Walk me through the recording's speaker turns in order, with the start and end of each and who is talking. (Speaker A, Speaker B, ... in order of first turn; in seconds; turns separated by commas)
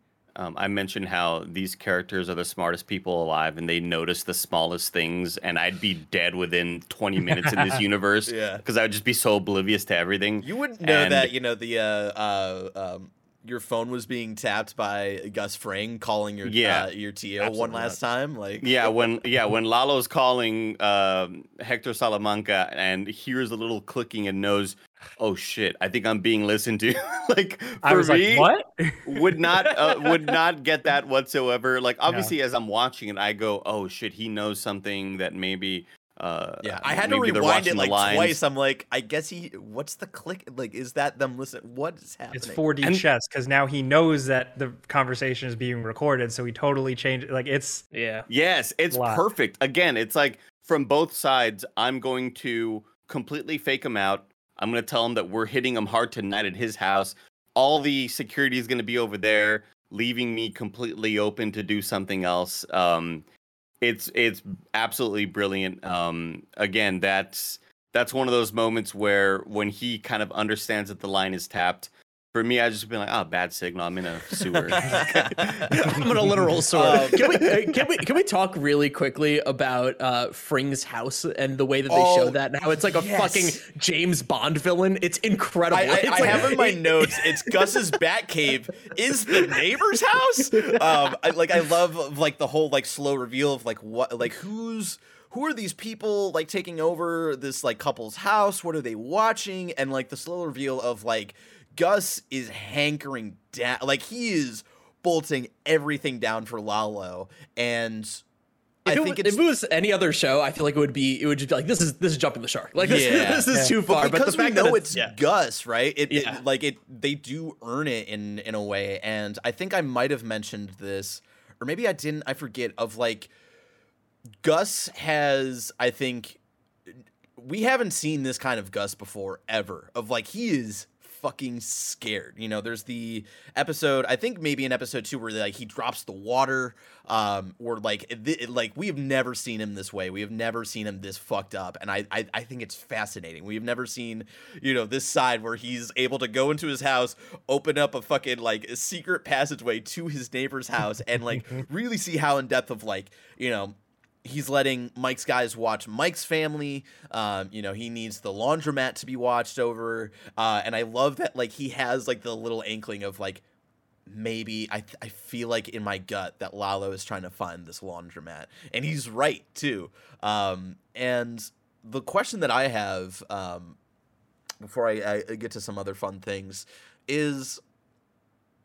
Speaker A: 0.4-11.3, Speaker B: 8.3-8.6, Speaker B: 10.4-19.0, Speaker A: 16.4-16.9, Speaker A: 17.4-18.0, Speaker A: 18.6-28.5, Speaker C: 27.8-29.9, Speaker A: 29.1-38.4, Speaker C: 32.1-32.3, Speaker B: 36.6-42.6, Speaker C: 42.3-47.9, Speaker D: 47.9-48.3, Speaker A: 48.3-63.2, Speaker C: 48.9-49.2, Speaker A: 63.8-76.1, Speaker B: 74.8-75.7, Speaker D: 75.6-87.8, Speaker B: 76.7-77.4, Speaker A: 76.9-77.2, Speaker B: 81.9-83.6, Speaker B: 85.7-108.2, Speaker D: 90.6-91.1, Speaker D: 108.8-115.1, Speaker B: 108.9-109.4, Speaker B: 112.8-123.3, Speaker D: 116.1-116.4, Speaker B: 124.4-126.4, Speaker B: 127.4-163.4, Speaker B: 164.1-173.8, Speaker B: 174.6-177.6